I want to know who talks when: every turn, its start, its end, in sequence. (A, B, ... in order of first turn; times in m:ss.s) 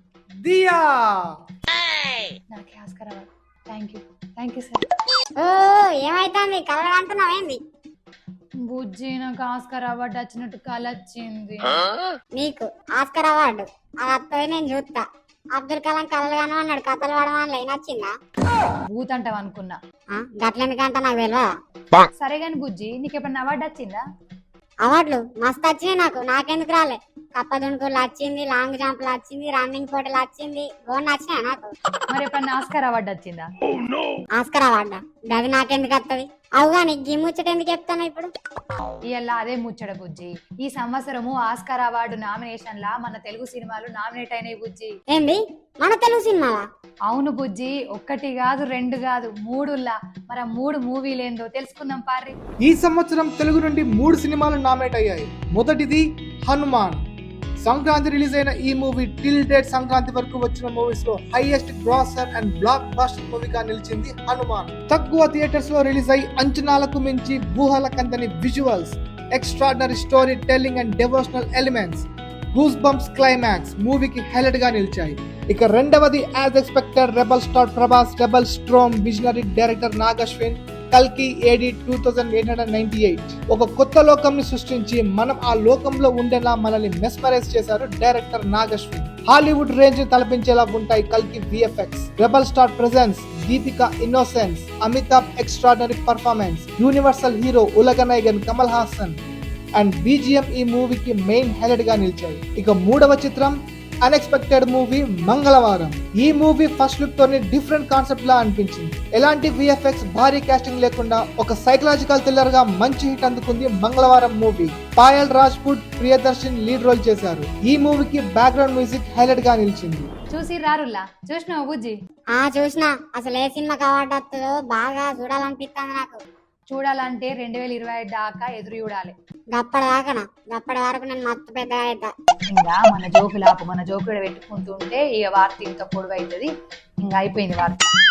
0:00.4-0:01.2 A
0:02.5-0:04.8 B
0:05.4-0:07.6 C
0:08.6-0:11.9 B
0:12.4-0:15.0 C
0:15.6-0:18.1 C
0:18.9-0:19.8 B
0:20.1-0:21.5 C
0:22.2-0:24.0 B
0:24.8-0:31.7 C
0:32.1-0:33.5 B
0:34.4-0:38.3 C
0:39.1-0:44.9 B
0:45.1-0:46.7 C
0:47.1-0:52.4 B
0:52.6-0:57.0 A
0:57.6-1:39.2 A
1:39.8-2:00.1 A
2:00.3-2:02.0 B
2:02.4-2:06.2 C
2:06.7-2:09.2 B
2:09.5-2:12.1 C
2:12.5-2:16.5 B
2:17.0-2:17.9 B